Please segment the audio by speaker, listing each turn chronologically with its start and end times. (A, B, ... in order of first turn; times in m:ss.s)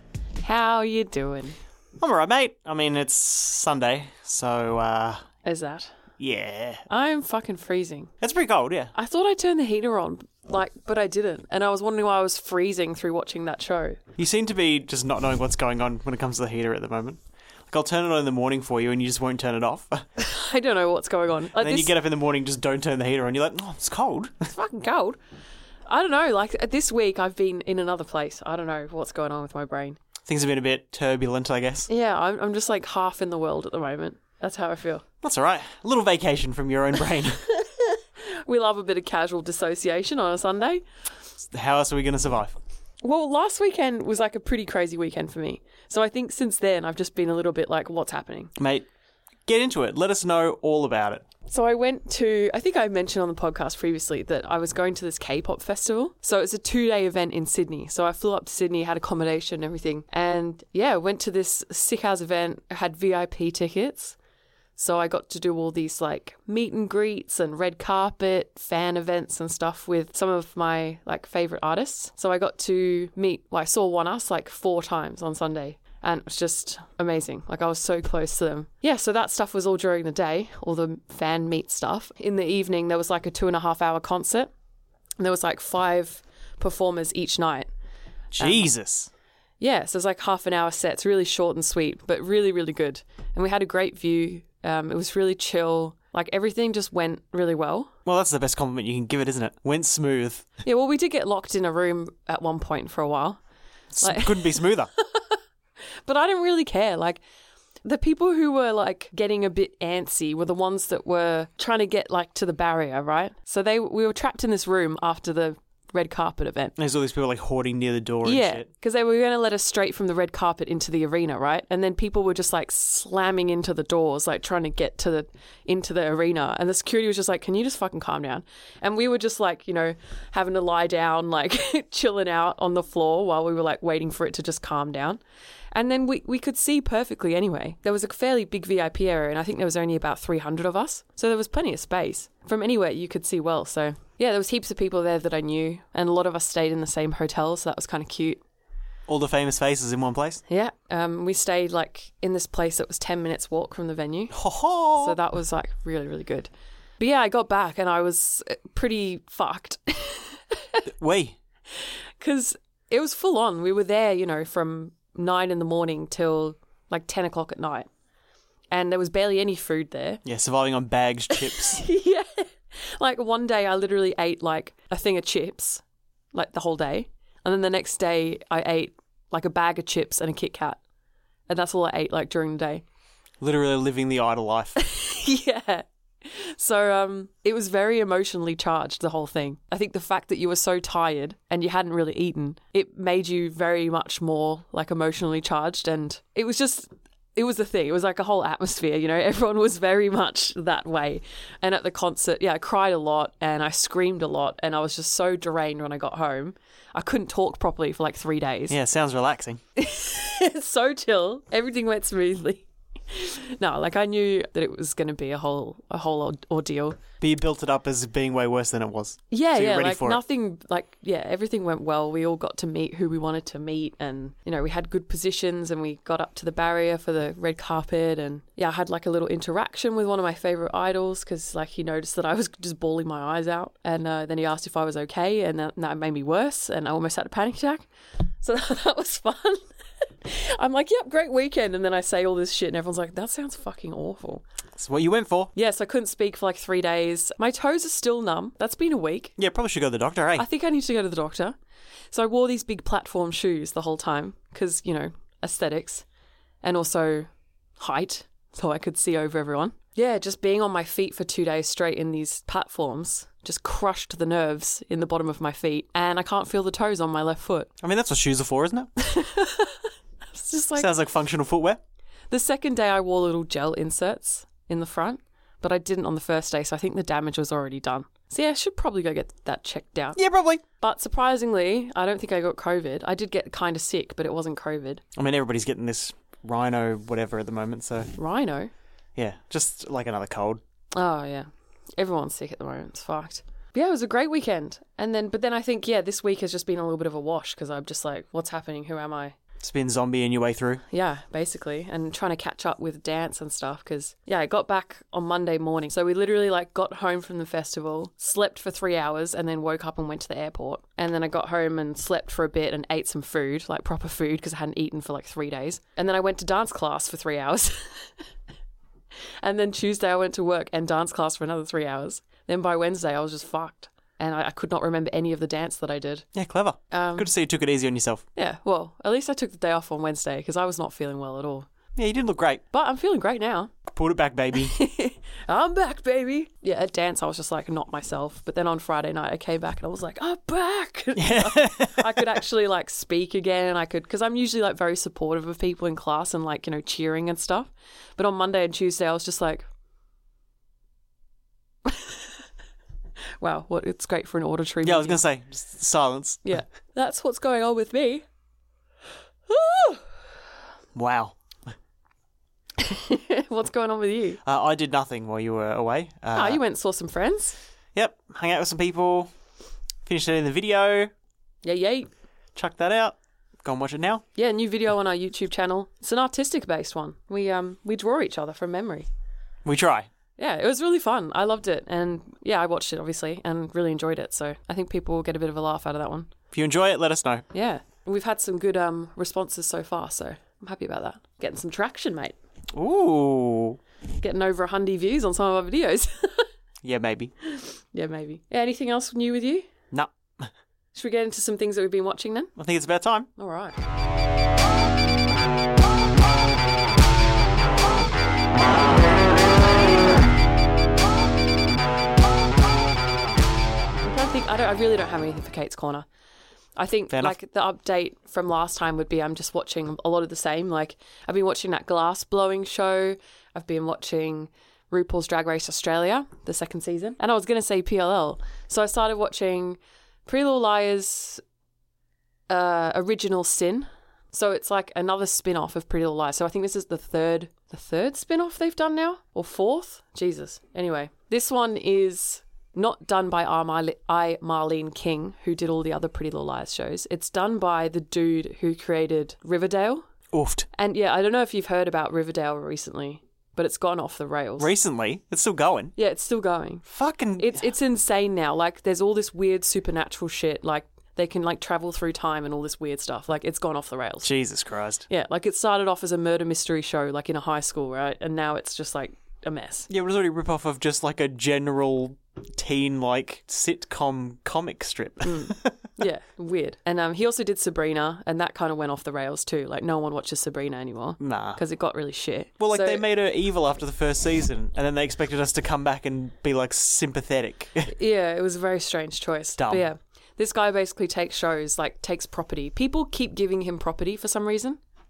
0:00.4-0:01.6 A
0:02.0-0:05.2 B
0:05.4-0:05.9 A
0:06.2-0:06.8 B
0:06.9-0:08.1 A
0:08.2-0:08.9 B
0:08.9-0:14.0 A
0:14.2-0:20.0 B
0:20.2-0:21.9 A
0:21.6-0:24.5 B
0:24.5-0:25.2 A
0:25.9-0:30.0 A
0:30.2-0:31.9 B
0:31.9-0:35.0 A
0:35.2-0:37.4 B
0:37.4-0:40.8 A
0:41.4-0:42.6 B
0:43.0-0:48.5 A
0:48.6-0:48.8 B
0:49.5-0:51.2 B
0:51.5-1:04.2 A
1:04.8-1:24.5 A
1:25.2-1:27.7 A
1:28.3-1:29.1 B
1:28.4-1:28.7 A
1:29.6-1:37.9 A
1:38.0-1:40.5 B
1:40.6-1:43.4 A
1:43.9-1:44.9 B
1:44.0-1:45.4 A
1:46.0-1:47.2 A
1:47.8-1:56.8 A
1:56.8-1:58.7 B
1:58.2-2:15.2 A
2:15.7-2:28.4 A
2:29.1-2:30.4 B
2:30.5-2:34.3 A
2:34.3-2:35.2 B
2:35.0-2:36.5 A
2:37.0-2:40.8 A
2:40.9-2:41.4 B
2:42.2-2:47.9 A
2:48.7-2:50.2 A
2:50.2-2:51.8 B
2:51.3-2:55.8 A
2:56.3-3:00.8 A
3:01.5-3:02.8 A
3:03.4-3:04.8 B
3:04.8-3:28.8 A
3:28.7-3:29.6 B
3:29.8-3:37.0 A
3:37.2-3:40.2 B
3:39.3-3:57.9 A
3:58.4-3:59.6 A
4:00.2-4:04.4 A
4:04.8-4:05.5 B
4:05.5-4:09.3 A
4:09.4-4:10.4 B
4:10.4-4:11.6 A
4:12.1-4:16.0 A
4:16.6-4:17.3 A
4:17.8-4:27.7 A
4:27.8-4:28.9 B
4:29.0-4:30.9 A
4:30.8-4:31.8 B
4:32.3-4:40.2 A
4:40.2-4:40.6 B
4:40.7-4:45.0 A
4:45.1-4:48.1 B
4:48.2-4:48.7 A
4:49.2-4:50.6 B
4:50.9-4:59.4 A
4:59.6-5:00.8 B
5:00.9-5:18.1 A
5:19.4-5:26.2 A
5:26.3-5:28.2 B
5:26.9-5:27.3 A
5:28.4-5:31.7 A
5:32.0-5:32.6 B
5:32.7-5:33.7 A
5:33.8-5:34.7 B
5:34.5-5:49.6 A
5:41.2-5:42.2 B
5:51.8-5:52.3 A
5:53.4-5:55.2 A
5:54.8-5:56.4 B
5:56.4-5:58.2 A
5:59.5-6:00.0 A
6:00.9-6:01.4 B
6:02.8-6:04.4 A
6:04.4-6:06.6 B
6:06.3-6:07.6 A
6:07.9-6:09.3 B
6:10.0-6:11.1 B
6:11.6-6:12.1 A
6:12.5-6:14.2 B
6:14.4-6:19.1 A
6:19.6-6:20.1 B
6:20.4-6:26.3 A
6:26.5-6:27.4 B
6:27.5-6:32.4 A
6:32.7-6:33.8 B
6:34.2-6:36.5 A
6:36.8-6:37.3 B
6:37.4-6:39.7 A
6:39.9-6:40.5 B
6:40.9-6:42.5 A
6:42.6-6:43.3 B
6:43.4-6:43.8 A
6:54.0-6:56.0 A
6:56.8-7:11.4 A
6:57.1-6:57.4 B
7:12.5-7:30.0 A
7:30.3-7:30.7 B
7:30.7-7:34.7 A
7:34.6-7:35.9 B
7:36.0-7:36.8 A
7:36.8-7:37.6 B
7:37.4-7:44.3 A
7:44.2-7:45.1 B
7:45.1-7:49.9 A
7:49.9-7:55.7 B
7:55.2-8:03.0 A
8:01.2-8:01.6 B
8:02.6-8:07.9 B
8:07.9-8:14.8 A
8:09.6-8:09.9 B